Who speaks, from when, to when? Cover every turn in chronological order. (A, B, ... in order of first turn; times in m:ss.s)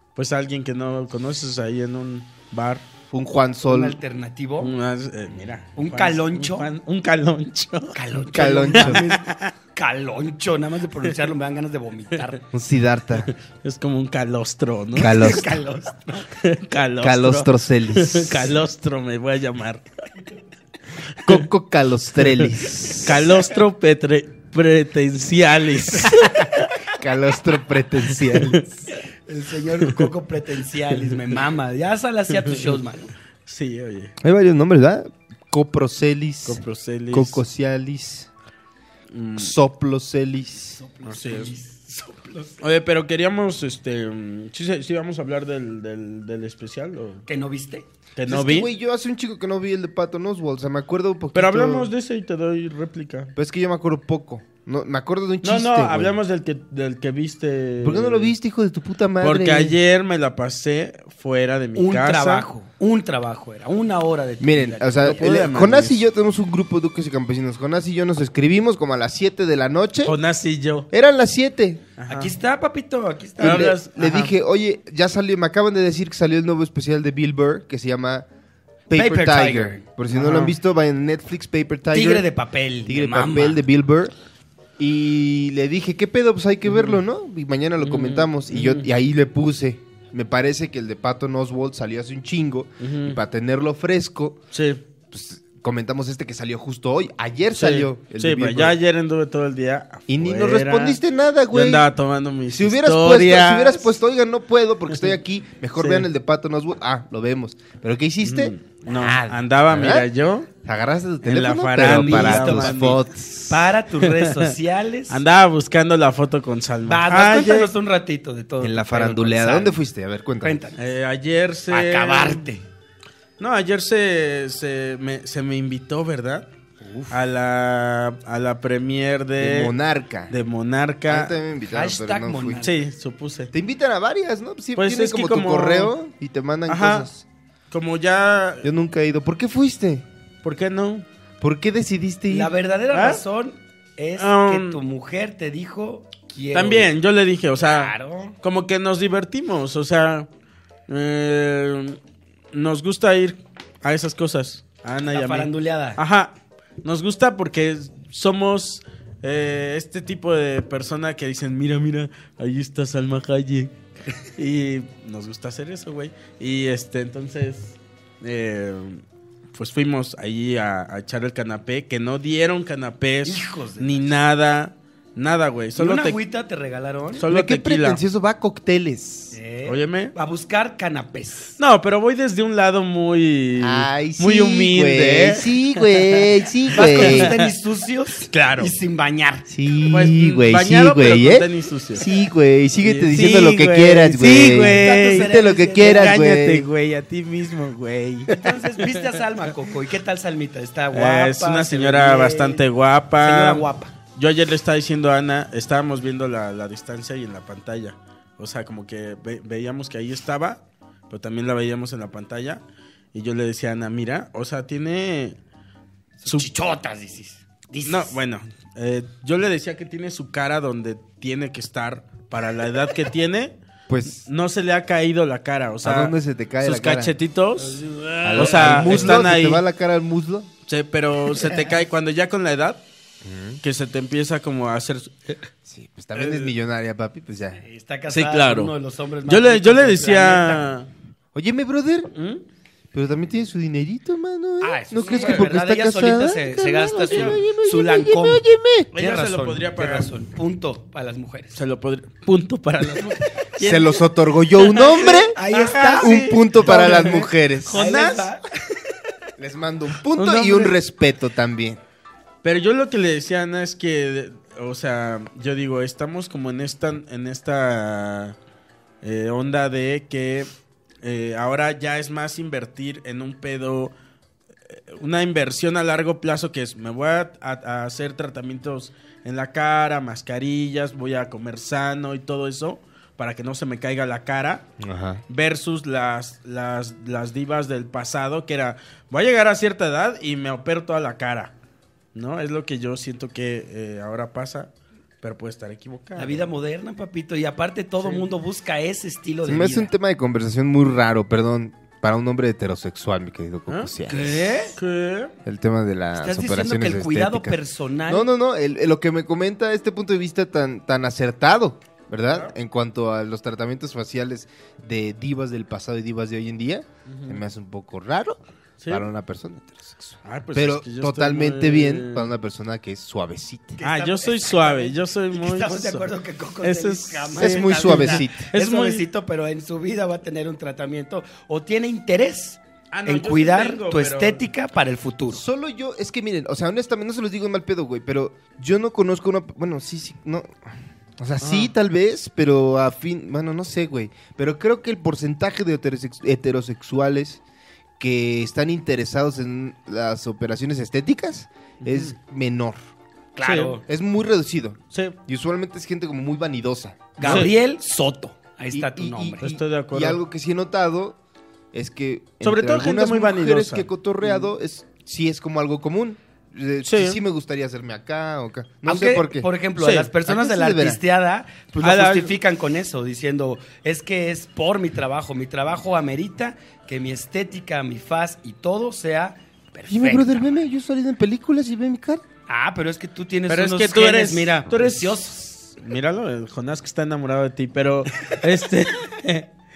0:00.2-0:02.8 A
0:03.1-0:04.0 B
0:03.6-0:04.7 C
0:04.6-0:08.0 A
0:05.8-0:06.7 C
0:07.9-0:12.4 C
0:08.3-0:09.0 B
0:08.7-0:09.5 A
0:12.5-0:13.3 B
0:13.2-0:15.2 A
0:14.9-0:15.6 B
0:15.0-0:16.3 C
0:16.4-0:19.8 A
0:17.0-0:18.5 B
0:21.2-0:23.3 B
0:22.3-0:26.7 A
0:26.9-0:28.6 B
0:28.2-0:28.6 A
0:29.3-0:33.1 C
0:29.8-0:30.1 A
0:32.4-0:32.8 A
0:33.4-0:34.1 A
0:34.2-0:38.3 B
0:36.4-0:37.4 A
0:39.1-0:39.5 A
0:39.4-0:40.8 B
0:40.8-0:42.6 C
0:41.0-0:41.5 A
0:42.6-0:47.2 A
0:47.3-0:47.9 C
0:48.2-0:48.7 A
0:48.3-0:51.9 B
0:51.3-0:53.3 A
0:53.3-0:56.1 B
0:55.4-0:58.3 A
0:57.8-0:59.8 B
0:59.2-1:02.5 A
1:01.8-1:05.2 C
1:04.4-1:10.2 B
1:05.0-1:06.0 A
1:10.0-1:10.9 A
1:10.9-1:11.8 B
1:12.0-1:12.3 A
1:12.1-1:13.7 C
1:13.4-1:14.3 A
1:13.4-1:18.2 B
1:18.9-1:22.2 B
1:18.9-1:19.8 C
1:20.1-1:20.5 A
1:21.9-1:23.6 C
1:22.8-1:24.1 B
1:24.8-1:34.4 B
1:26.6-1:27.0 A
1:27.8-1:28.9 A
1:32.8-1:33.2 A
1:34.5-1:34.8 A
1:35.1-1:38.8 B
1:37.6-1:41.0 A
1:40.1-1:41.9 B
1:41.5-1:43.9 A
1:42.5-1:50.1 B
1:45.8-1:46.1 A
1:48.2-1:50.5 A
1:50.6-1:53.7 B
1:51.2-1:53.0 A
1:51.8-1:52.8 C
1:53.5-1:55.2 C
1:54.0-1:54.5 A
1:55.1-1:57.7 A
1:56.9-1:59.8 C
1:58.6-2:00.6 B
2:00.4-2:00.8 C
2:00.8-2:02.4 A
2:01.7-2:02.6 C
2:03.4-2:06.4 A
2:06.8-2:07.2 B
2:07.1-2:09.7 A
2:09.4-2:10.3 B
2:10.3-2:11.4 A
2:11.1-2:12.6 B
2:11.7-2:12.8 C
2:12.6-2:13.5 A
2:13.5-2:17.2 B
2:14.8-2:15.9 A
2:16.7-2:17.1 A
2:17.7-2:18.7 A
2:18.6-2:20.0 B
2:20.4-2:21.0 A
2:21.4-2:22.5 B
2:22.3-2:26.9 C
2:22.9-2:23.2 A
2:24.2-2:24.8 A
2:26.5-2:30.3 A
2:27.6-2:28.4 C
2:30.9-2:32.0 A
2:32.5-2:49.0 A
2:35.1-2:36.0 C
2:49.5-2:56.2 A
2:53.2-2:54.1 C
2:55.8-2:57.2 C
2:57.2-2:58.0 A
2:57.3-2:59.4 B
2:59.3-3:01.6 C
2:59.6-3:00.1 A
3:01.6-3:07.5 A
3:03.6-3:07.3 B
3:06.7-3:09.5 C
3:08.3-3:08.7 A
3:09.5-3:16.7 B
3:09.9-3:12.0 A
3:12.8-3:18.9 A
3:14.7-3:16.2 C
3:18.3-3:22.6 C
3:20.9-3:32.6 A
3:23.2-3:23.9 C
3:33.1-3:35.4 A
3:36.2-3:38.2 C
3:37.8-3:43.5 A
3:43.9-3:44.3 B
3:44.1-3:49.6 A
3:45.8-3:47.1 B
3:47.6-3:49.1 C
3:48.2-3:50.5 B
3:50.7-3:52.8 A
3:53.2-3:53.6 B
3:53.6-3:55.4 A
3:55.6-3:57.6 B
3:56.1-3:56.5 A
3:57.6-4:00.7 C
3:58.1-3:58.7 A
3:59.2-4:00.9 A
4:01.3-4:02.1 B
4:02.1-4:02.4 A
4:02.9-4:08.9 B
4:04.6-4:08.4 C
4:05.0-4:05.5 A
4:07.1-4:07.4 A
4:08.9-4:10.1 A
4:08.9-4:11.6 C
4:11.5-4:14.0 A
4:13.6-4:15.3 B
4:14.5-4:18.3 A
4:15.3-4:18.4 C
4:15.9-4:17.8 B
4:19.4-4:21.8 B
4:20.1-4:20.7 A
4:22.4-4:28.4 A
4:29.0-4:30.5 A
4:31.0-4:33.9 A
4:34.7-4:44.7 A
4:44.8-4:45.2 B
4:45.3-4:51.5 A
4:52.1-4:54.7 A
4:55.2-4:56.5 A
4:56.2-4:59.9 C
4:58.0-4:58.2 A
4:59.4-5:04.4 B
5:03.7-5:03.9 A
5:04.1-5:04.8 C
5:04.7-5:05.3 A
5:05.4-5:23.8 B
5:06.2-5:08.3 C
5:17.1-5:17.4 A
5:18.8-5:19.1 A
5:20.2-5:22.3 A
5:23.8-5:35.4 C
5:23.8-5:26.1 A
5:26.6-5:29.0 A
5:27.4-5:28.4 B
5:32.9-5:34.4 A
5:35.3-5:47.4 B
5:41.4-5:41.7 A
5:48.0-5:52.8 B
5:51.8-5:52.1 A
5:53.4-5:53.8 C
5:53.4-5:53.8 A
5:53.8-5:57.5 B
5:57.2-5:59.5 C
5:57.2-5:57.5 A
5:58.7-6:01.2 B
5:59.4-6:00.2 A
6:01.7-6:09.5 B
6:02.4-6:03.9 A
6:06.8-6:07.2 A
6:08.8-6:20.4 C
6:09.8-6:10.1 A
6:10.2-6:11.0 B
6:11.8-6:12.4 A
6:19.9-6:22.2 B
6:22.5-6:25.6 C
6:23.5-6:29.5 A